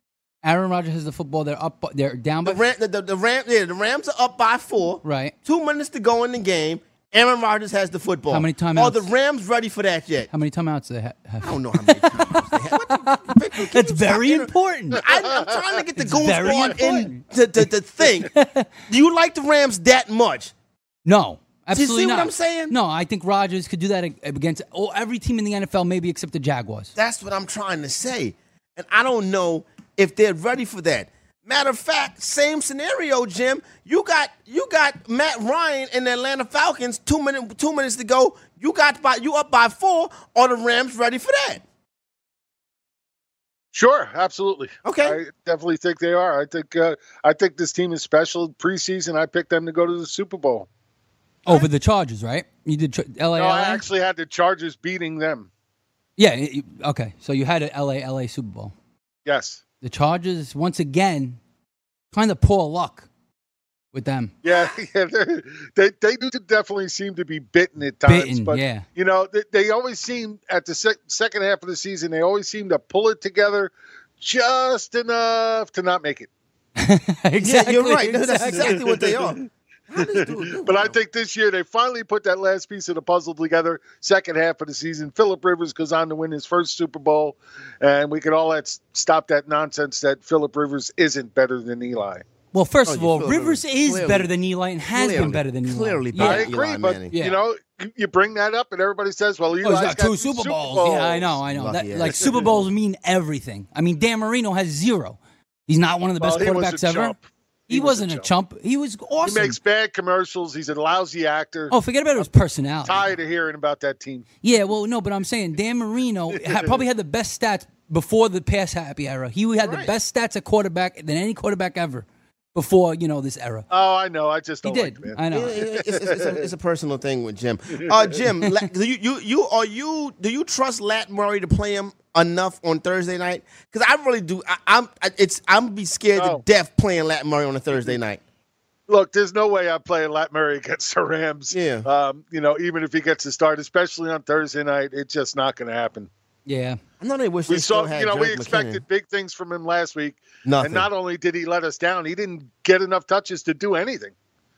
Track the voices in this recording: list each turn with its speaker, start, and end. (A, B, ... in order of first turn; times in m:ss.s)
0:00.4-0:02.6 A
0:02.4-0:10.3 B
0:05.0-0:05.3 A
0:08.3-0:09.1 A
0:10.3-0:15.0 A
0:11.4-0:18.3 B
0:16.0-0:17.2 A
0:18.2-0:18.7 A
0:18.9-0:20.5 B
0:21.0-0:26.9 A
0:21.7-0:22.8 B
0:26.9-0:41.6 B
0:43.7-0:50.7 C
0:44.8-0:45.2 B
0:51.4-0:53.8 A
0:53.4-0:55.5 C
0:56.2-0:58.7 A
0:59.2-0:59.6 C
0:59.8-1:01.4 A
1:02.1-1:03.1 A
1:03.9-1:04.3 A
1:04.4-1:16.3 C
1:08.0-1:08.8 A
1:16.8-1:18.7 A
1:17.4-1:21.0 B
1:18.7-1:19.2 C
1:20.0-1:32.2 C
1:32.5-1:36.5 A
1:32.8-1:34.3 B
1:34.9-1:37.1 B
1:36.2-1:41.3 C
1:37.1-1:37.4 A
1:39.6-1:47.2 A
1:41.5-1:42.6 B
1:46.2-1:48.3 C
1:47.7-1:49.6 A
1:49.2-1:52.3 C
1:51.7-1:53.1 A
1:52.8-1:54.3 C
1:54.4-2:03.6 A
1:56.4-1:56.7 C
1:59.6-1:59.9 B
2:03.7-2:05.2 C
2:04.6-2:05.6 A
2:05.3-2:18.2 B
2:05.8-2:06.4 C
2:16.2-2:16.4 C
2:18.9-2:26.1 C
2:21.5-2:21.9 B
2:26.4-2:26.8 A
2:27.0-2:28.8 B
2:27.5-2:34.1 C
2:30.4-2:30.9 B